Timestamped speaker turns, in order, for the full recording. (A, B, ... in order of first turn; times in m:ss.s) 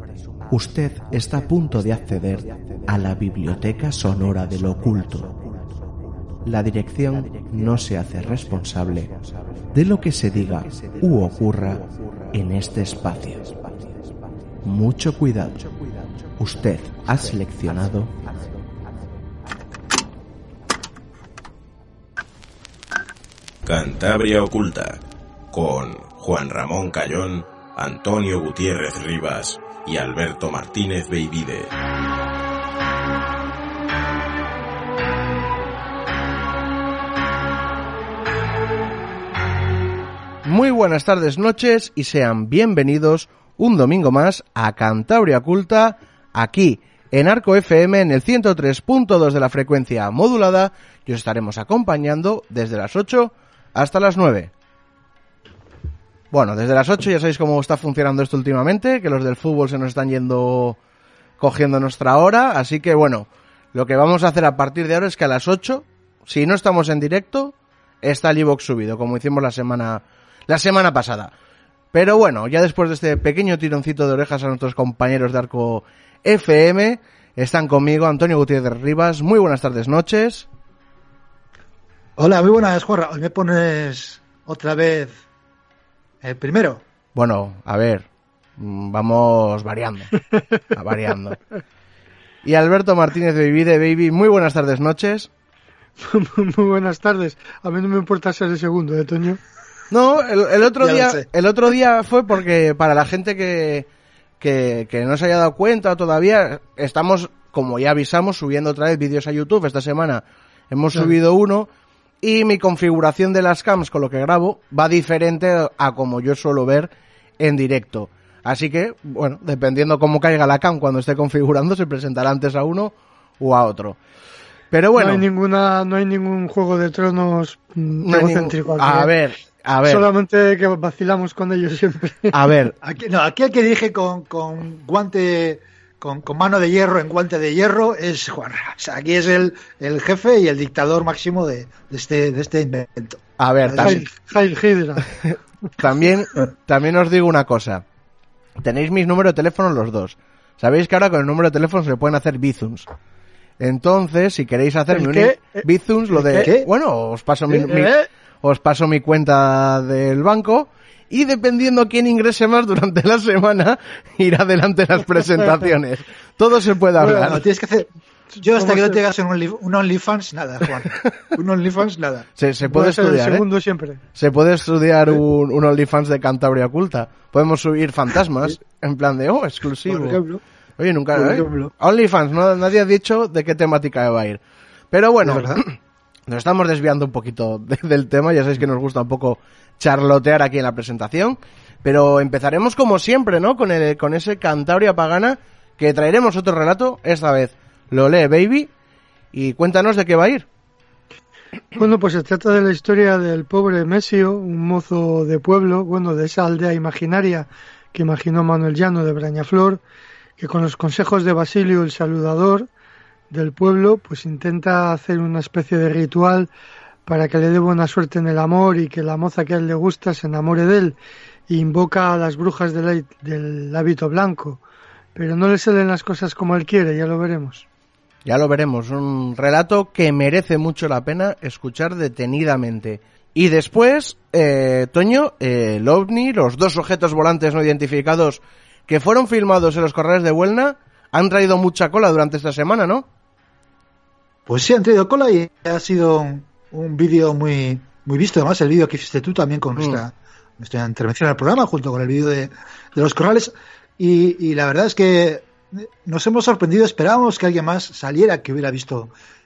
0:00.5-0:05.4 A
0:06.4-0:09.2 A
0:09.7-0:13.6 A
0:14.6-0:15.7 A
0:16.4-0:18.1 A
0:23.6-0:25.0 B
0:25.5-0:31.7 B
0:40.4-0:54.5 C
0:56.3-1:00.8 C
1:01.4-1:11.3 C
1:11.9-1:20.4 C
1:22.2-1:25.2 D
1:26.2-1:26.8 D
1:27.1-1:28.0 C
1:28.6-1:31.4 C
1:32.4-1:35.3 C
1:36.0-1:39.4 E
1:39.9-1:43.9 C
1:40.8-1:41.3 D
1:44.4-1:51.7 C
1:52.2-2:04.0 C
2:04.7-2:05.3 C
2:05.0-2:09.1 E
2:08.0-2:10.1 C
2:09.8-2:12.3 E
2:12.3-2:12.7 C
2:12.8-2:24.0 D
2:23.4-2:24.0 C
2:23.8-2:25.0 E
2:25.8-2:27.8 C
2:28.6-2:32.9 C
2:33.6-2:47.4 C
2:34.9-2:36.5 E
2:36.4-2:36.7 D
2:37.5-2:37.8 D
2:37.7-2:38.0 E
2:47.0-2:47.3 E
2:47.1-2:52.3 D
2:48.5-2:49.0 E
2:52.4-2:53.5 C
2:52.6-2:54.0 E
2:54.2-3:00.2 C
2:59.9-3:00.4 D
3:00.8-3:04.4 C
3:01.1-3:01.7 D
3:04.9-3:05.8 C
3:05.2-3:05.6 D
3:06.3-3:18.7 C
3:19.3-3:20.4 C
3:21.8-3:29.8 E
3:30.4-3:32.7 E
3:33.3-3:36.5 E
3:37.0-3:41.0 E
3:41.5-3:44.6 E
3:45.1-3:47.6 E
3:48.2-4:03.0 C
4:04.5-4:19.1 D